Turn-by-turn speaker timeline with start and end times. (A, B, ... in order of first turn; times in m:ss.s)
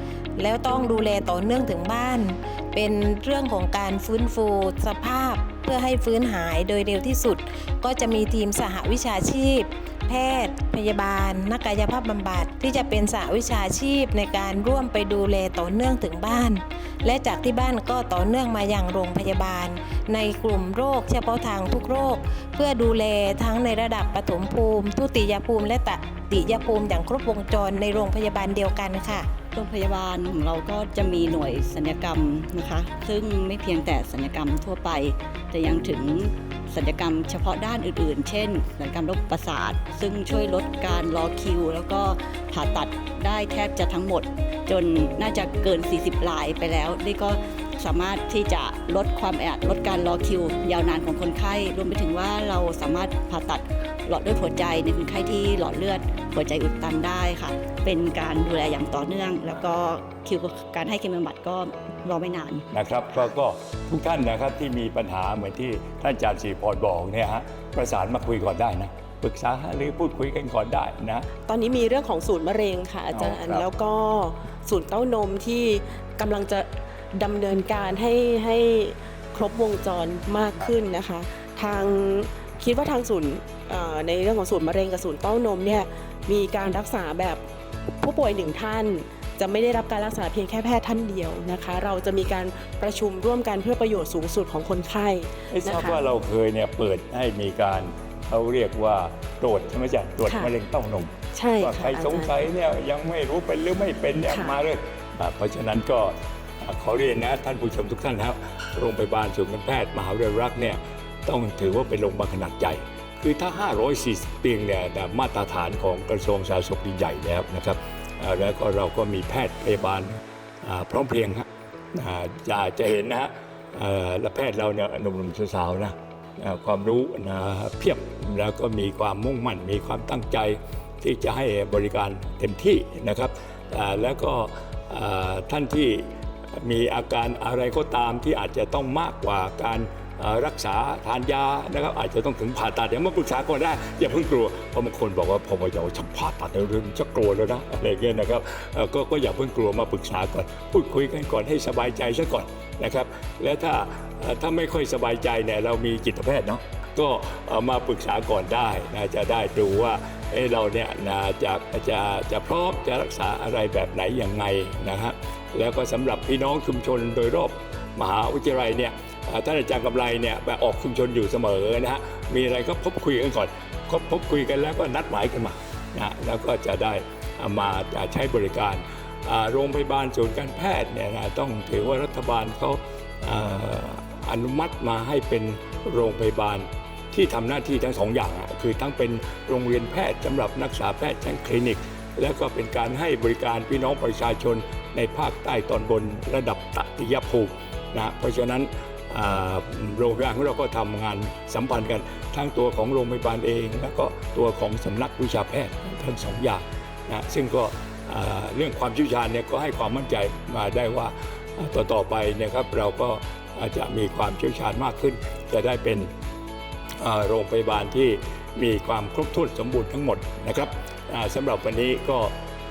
0:00.4-0:29.3 A
0:29.6-1:02.6 B
1:02.7-1:11.3 C
1:11.5-1:27.4 D
1:13.1-1:13.6 C
1:28.0-1:36.0 D
1:35.5-3:36.1 C
1:40.2-1:40.5 D
1:41.4-1:42.4 D
1:44.3-1:44.6 D
3:37.0-3:42.3 C